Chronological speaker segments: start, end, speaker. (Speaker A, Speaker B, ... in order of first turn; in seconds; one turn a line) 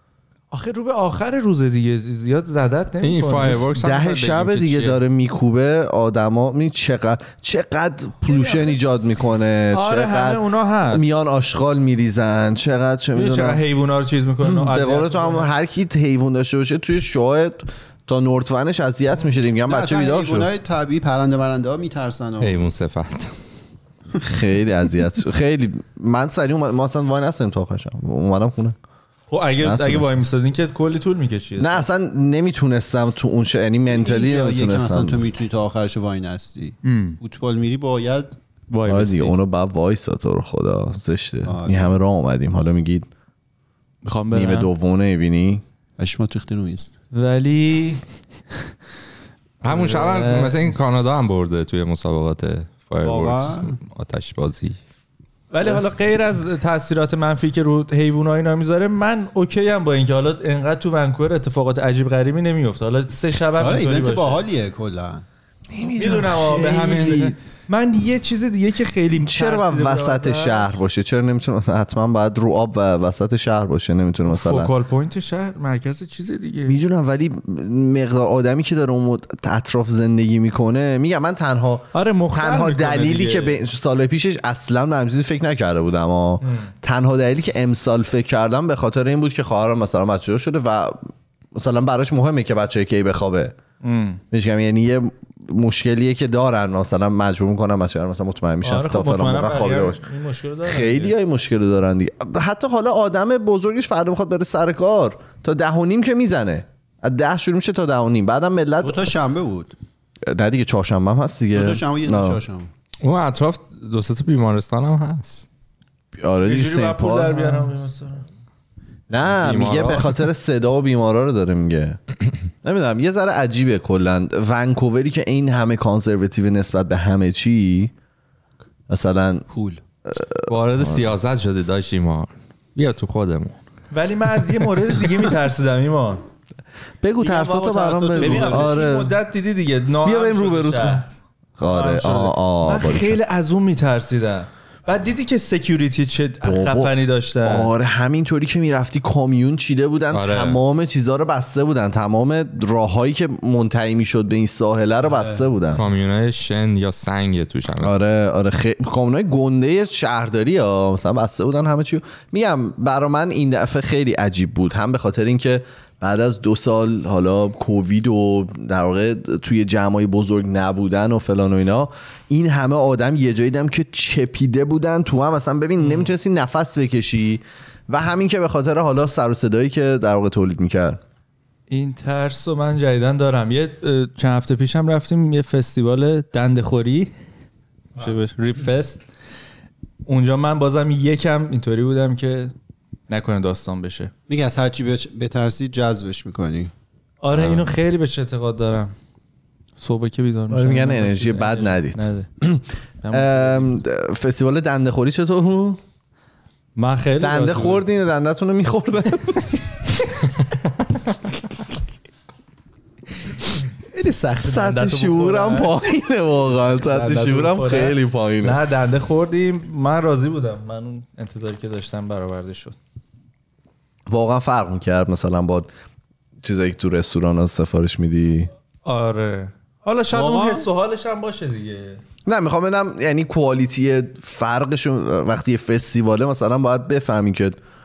Speaker A: 0.5-3.8
Speaker B: 3.0-5.0
Speaker C: 3.6-13.6
Speaker A: 8.2-11.1
Speaker A: 13.1-15.5
Speaker C: 14.4-20.5
Speaker D: 19.7-22.7
Speaker B: 22.4-23.3
Speaker C: 24.2-28.8
Speaker A: 29.3-31.9
Speaker C: 29.6-30.2
Speaker C: 31.6-35.3
Speaker D: 33.9-38.4
Speaker A: 36.8-37.2
Speaker A: 38.7-39.4
Speaker C: 38.9-43.1
Speaker D: 41.5-42.0
Speaker A: 44.0-44.7
Speaker C: 44.3-45.6
Speaker D: 46.0-46.9
Speaker A: 47.1-48.0
Speaker B: 49.6-54.8
Speaker A: 49.7-50.8
Speaker D: 53.0-53.7
Speaker A: 55.5-64.4
Speaker D: 63.6-65.2
Speaker C: 65.7-67.3
Speaker A: 66.0-70.7
Speaker D: 66.6-67.3
Speaker C: 69.2-74.7
Speaker A: 74.3-76.8
Speaker C: 76.7-91.0
Speaker A: 81.9-83.6
Speaker A: 86.4-86.7
Speaker C: 91.5-93.6
Speaker A: 93.8-94.2
Speaker C: 94.3-100.0
Speaker A: 98.6-101.2
Speaker C: 100.7-109.0
Speaker D: 108.8-109.8
Speaker C: 110.3-112.4
Speaker D: 111.5-112.7
Speaker B: 113.0-115.5
Speaker C: 116.2-117.6
Speaker A: 116.4-118.2
Speaker C: 119.1-122.0
Speaker B: 119.4-120.2
Speaker C: 122.6-127.9
Speaker C: 128.9-129.5
Speaker D: 129.5-129.8
Speaker C: 130.1-131.1
Speaker B: 130.5-133.6
Speaker A: 133.9-136.2
Speaker C: 137.0-139.1
Speaker D: 137.2-138.8
Speaker A: 138.2-141.1
Speaker C: 140.0-141.0
Speaker C: 141.6-143.2
Speaker A: 141.7-147.7
Speaker C: 146.4-155.8
Speaker B: 150.1-150.6
Speaker B: 155.7-157.9
Speaker C: 157.8-181.0
Speaker A: 175.8-176.1
Speaker A: 181.7-187.1
Speaker A: 188.0-189.0
Speaker A: 190.1-192.5
Speaker A: 193.1-194.1
Speaker D: 194.3-196.7
Speaker A: 197.2-198.9
Speaker B: 197.3-197.7
Speaker A: 199.8-202.3
Speaker C: 200.5-205.8
Speaker A: 203.0-203.8
Speaker A: 206.8-207.9
Speaker C: 207.2-209.5
Speaker A: 213.9-215.8
Speaker C: 214.4-218.6
Speaker A: 216.5-222.8
Speaker C: 224.1-225.7
Speaker C: 226.4-228.5
Speaker A: 228.8-232.0
Speaker D: 230.1-230.7
Speaker C: 232.3-237.6